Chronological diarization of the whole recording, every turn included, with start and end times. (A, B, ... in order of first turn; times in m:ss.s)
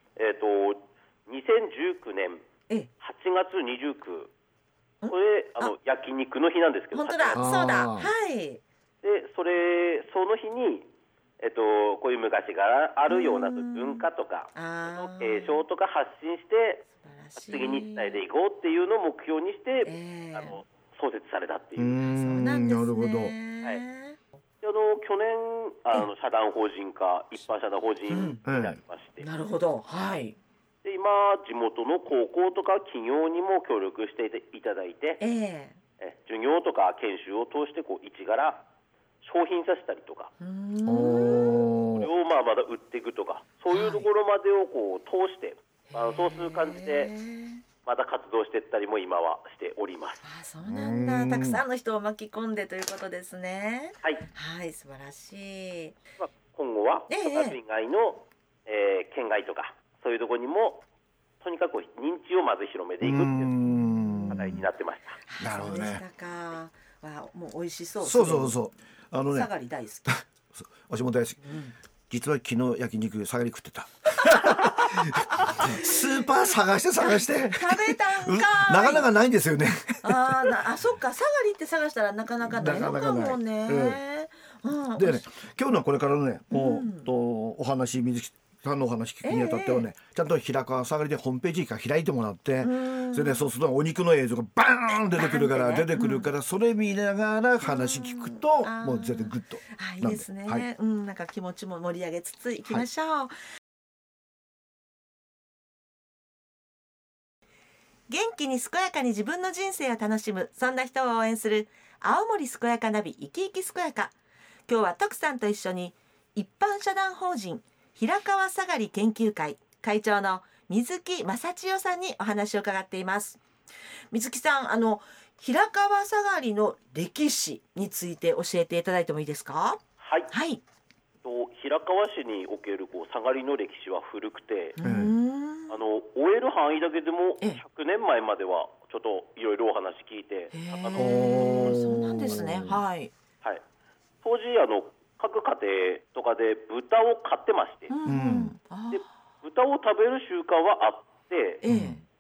0:00.2-0:02.4 A
0:03.0-0:04.3 A
0:05.0-0:05.7 B
0:05.1-0:07.5 A
0:06.9-0:08.6 B
0:07.3-0:08.1 C
0:09.0-0:10.9 A
0:11.4-0:22.0 A
0:13.1-0:15.6 B
0:17.0-0:18.2 B
0:19.8-0:20.6 B
0:21.8-0:23.3 C
0:22.1-0:24.2 B
0:24.6-0:29.3 A
0:28.1-0:28.4 B
0:28.5-0:28.8 C
0:29.2-0:30.4 B
0:30.8-0:35.2 A
0:35.2-0:35.8 B
0:36.0-0:38.6 A
0:39.2-0:40.3 A
0:40.4-0:41.7 B
0:40.8-0:42.1 C
0:41.9-0:47.1 A
0:43.7-0:44.1 B
0:45.9-0:47.6 B
0:47.8-0:50.2 A
0:50.2-0:56.0 B
0:50.6-0:51.6 C
0:56.2-1:00.8 A
0:57.1-0:57.6 B
1:01.4-1:03.5 A
1:03.0-1:04.6 C
1:03.7-1:04.6 B
1:04.3-1:05.2 A
1:05.3-1:08.6 B
1:05.4-1:06.0 C
1:08.0-1:09.5 C
1:09.3-1:10.2 B
1:10.1-1:11.5 C
1:11.4-1:11.8 B
1:12.1-1:20.5 C
1:14.5-1:16.3 B
1:17.0-1:19.1 B
1:20.0-1:25.3 B
1:22.4-1:24.0 C
1:25.0-1:40.7 C
1:26.5-1:27.1 B
1:29.2-1:29.9 B
1:32.6-1:33.5 B
1:35.1-1:36.3 B
1:37.6-1:43.4 B
1:48.1-1:54.2 B
1:54.7-2:03.4 B
2:04.1-2:10.6 B
2:10.0-2:10.3 A
2:11.2-2:14.8 A
2:14.8-2:15.8 B
2:14.8-2:15.1 C
2:15.7-2:21.7 A
2:20.5-2:23.1 B
2:20.9-2:22.8 C
2:24.2-2:27.9 A
2:27.9-2:29.1 B
2:28.1-2:28.5 C
2:28.9-2:31.6 A
2:31.6-2:32.0 B
2:31.7-2:32.0 C